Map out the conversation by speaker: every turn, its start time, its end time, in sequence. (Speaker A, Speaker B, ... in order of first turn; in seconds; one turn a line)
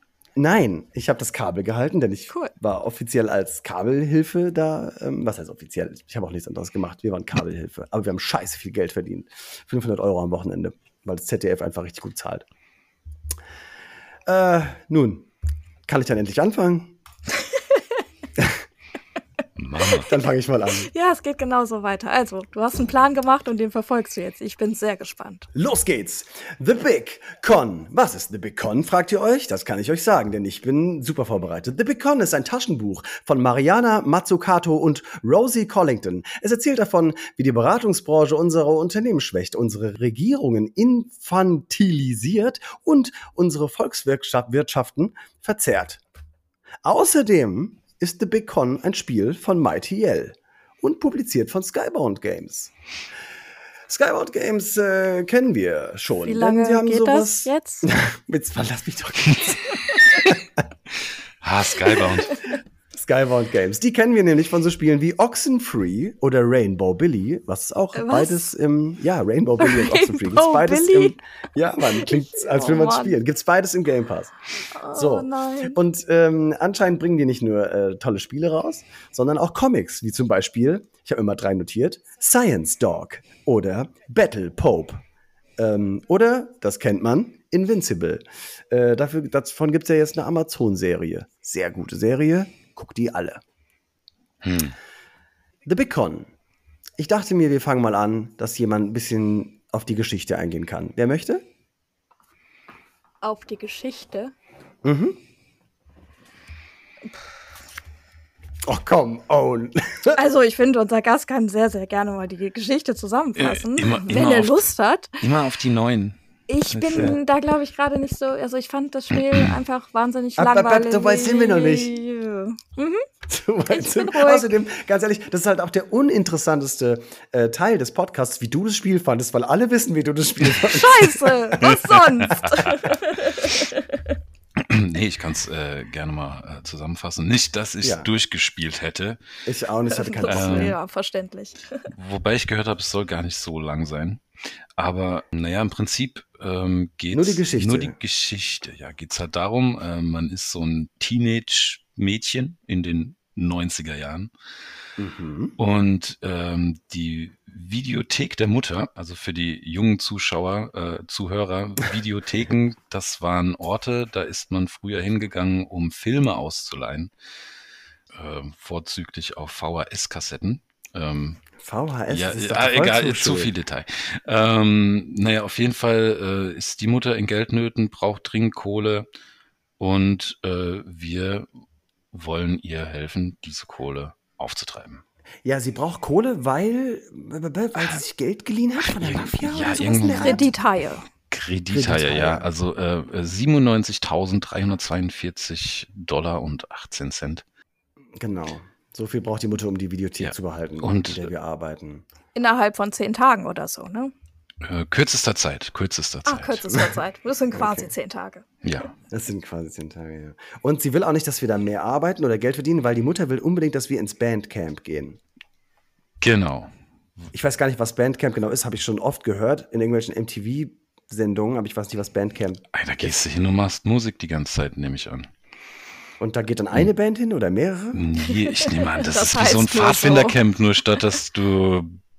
Speaker A: 0.3-12.4
Speaker A: 14.3-15.3
Speaker A: 15.9-17.0
Speaker B: 17.6-17.8
Speaker C: 19.6-20.1
Speaker A: 20.0-20.9
Speaker B: 20.7-25.5
Speaker A: 25.5-46.0
Speaker A: 46.8-52.7
Speaker A: 53.9-60.0
Speaker B: 56.2-57.9
Speaker C: 61.4-62.4
Speaker B: 61.9-62.3
Speaker A: 62.9-74.3
Speaker B: 67.9-68.5
Speaker B: 69.6-71.2
Speaker B: 71.8-73.2
Speaker B: 74.7-75.8
Speaker A: 74.9-85.0
Speaker A: 85.6-93.4
Speaker C: 94.4-94.7
Speaker A: 95.6-96.3
Speaker A: 97.0-101.4
Speaker B: 103.2-104.3
Speaker A: 104.8-105.2
Speaker A: 108.6-110.2
Speaker B: 110.1-115.2
Speaker C: 113.4-114.6
Speaker C: 115.2-116.2
Speaker B: 116.5-123.0
Speaker C: 116.7-117.2
Speaker A: 120.4-121.9
Speaker A: 123.3-131.8
Speaker B: 123.7-124.5
Speaker B: 130.6-134.1
Speaker C: 132.2-132.6
Speaker C: 134.6-139.2
Speaker A: 137.8-138.1
Speaker A: 139.4-140.8
Speaker B: 139.9-141.8
Speaker C: 140.3-140.8
Speaker C: 141.9-144.2
Speaker C: 144.8-154.3
Speaker A: 147.1-147.9
Speaker A: 155.0-155.5
Speaker C: 155.6-167.1
Speaker C: 168.1-171.5
Speaker A: 171.6-173.5
Speaker C: 172.1-179.1
Speaker C: 179.8-181.5
Speaker C: 182.1-185.0
Speaker A: 185.4-190.5
Speaker C: 188.8-190.5
Speaker B: 190.1-191.1
Speaker C: 191.3-197.4
Speaker A: 191.7-192.5
Speaker A: 198.2-202.0
Speaker C: 200.2-201.3
Speaker B: 202.3-204.1
Speaker C: 204.6-206.8
Speaker B: 206.2-208.4
Speaker A: 207.5-207.9
Speaker C: 208.6-208.9
Speaker A: 209.1-215.2
Speaker C: 216.2-216.7
Speaker A: 217.3-223.1
Speaker C: 222.7-225.3
Speaker A: 226.2-228.0
Speaker C: 227.9-232.0
Speaker B: 228.4-230.4